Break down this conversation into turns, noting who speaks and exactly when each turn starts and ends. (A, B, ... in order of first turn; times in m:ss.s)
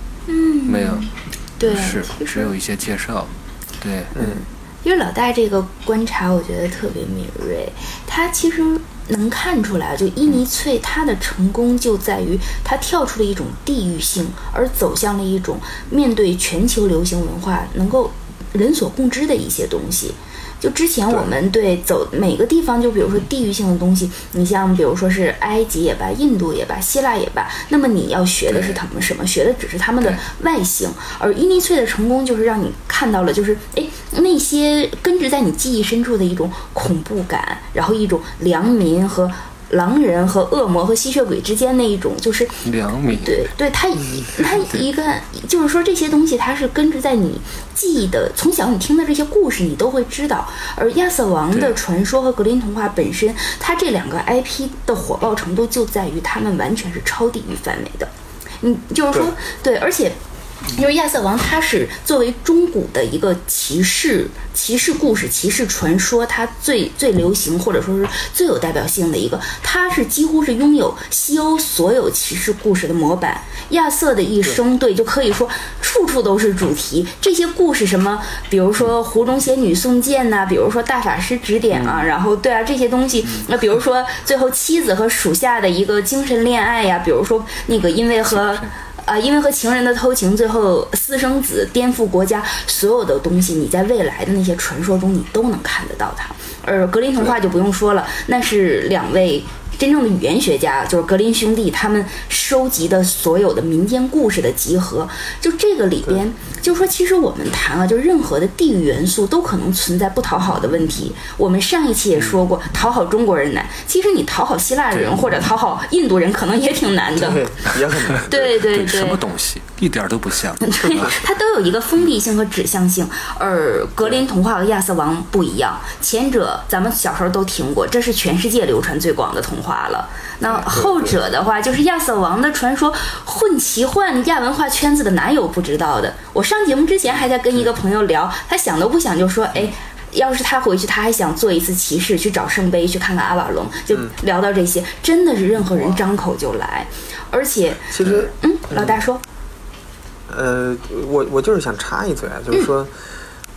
0:00.3-0:02.5 A
0:00.6-0:01.1 B
0:01.6-0:04.1 B
0:04.1-0:04.4 C
0:04.2-0:58.1 A
0:28.5-0:28.8 B
0:42.6-0:43.5 B
0:51.5-0:51.8 B
0:58.6-1:00.2 A
1:00.7-1:57.4 A
1:28.4-1:28.7 B
1:54.9-1:55.2 B
1:57.1-1:58.6 C
1:58.1-2:01.1 B
1:58.3-1:59.2 A
2:00.6-2:29.2 A
2:10.5-2:11.2 C
2:27.9-2:29.0 C
2:30.3-2:33.0 C